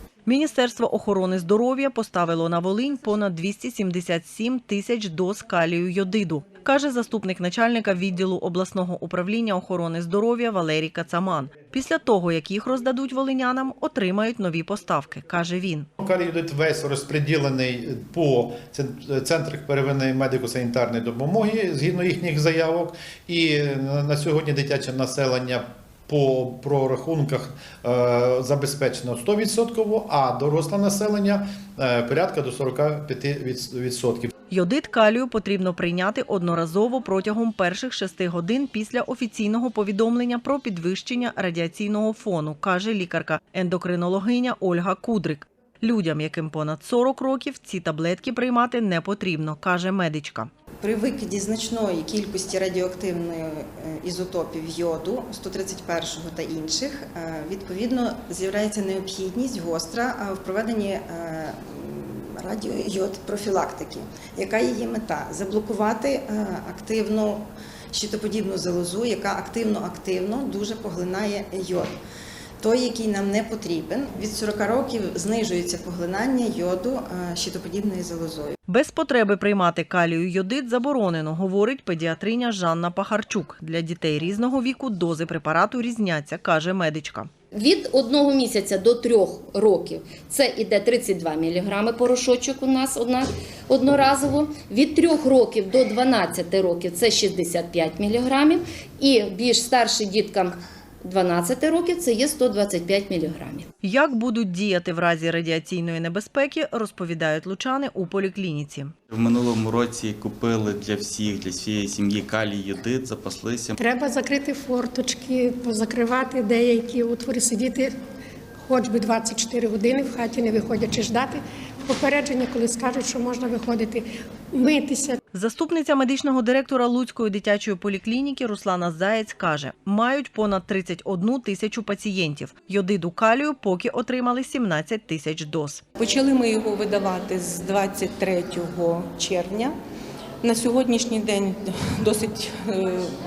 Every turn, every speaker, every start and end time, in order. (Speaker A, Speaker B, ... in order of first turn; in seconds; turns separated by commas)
Speaker A: 0.2-15.9, Speaker B: 16.0-34.3, Speaker A: 34.5-50.5, Speaker C: 50.8-71.9, Speaker C: 72.6-78.5, Speaker A: 78.7-87.3, Speaker D: 87.5-103.7, Speaker A: 103.8-108.9, Speaker E: 109.1-113.7, Speaker F: 113.8-117.9, Speaker F: 118.7-121.4, Speaker F: 121.9-124.0, Speaker F: 124.6-125.1, Speaker A: 125.3-135.8, Speaker G: 136.0-139.7, Speaker G: 140.4-143.1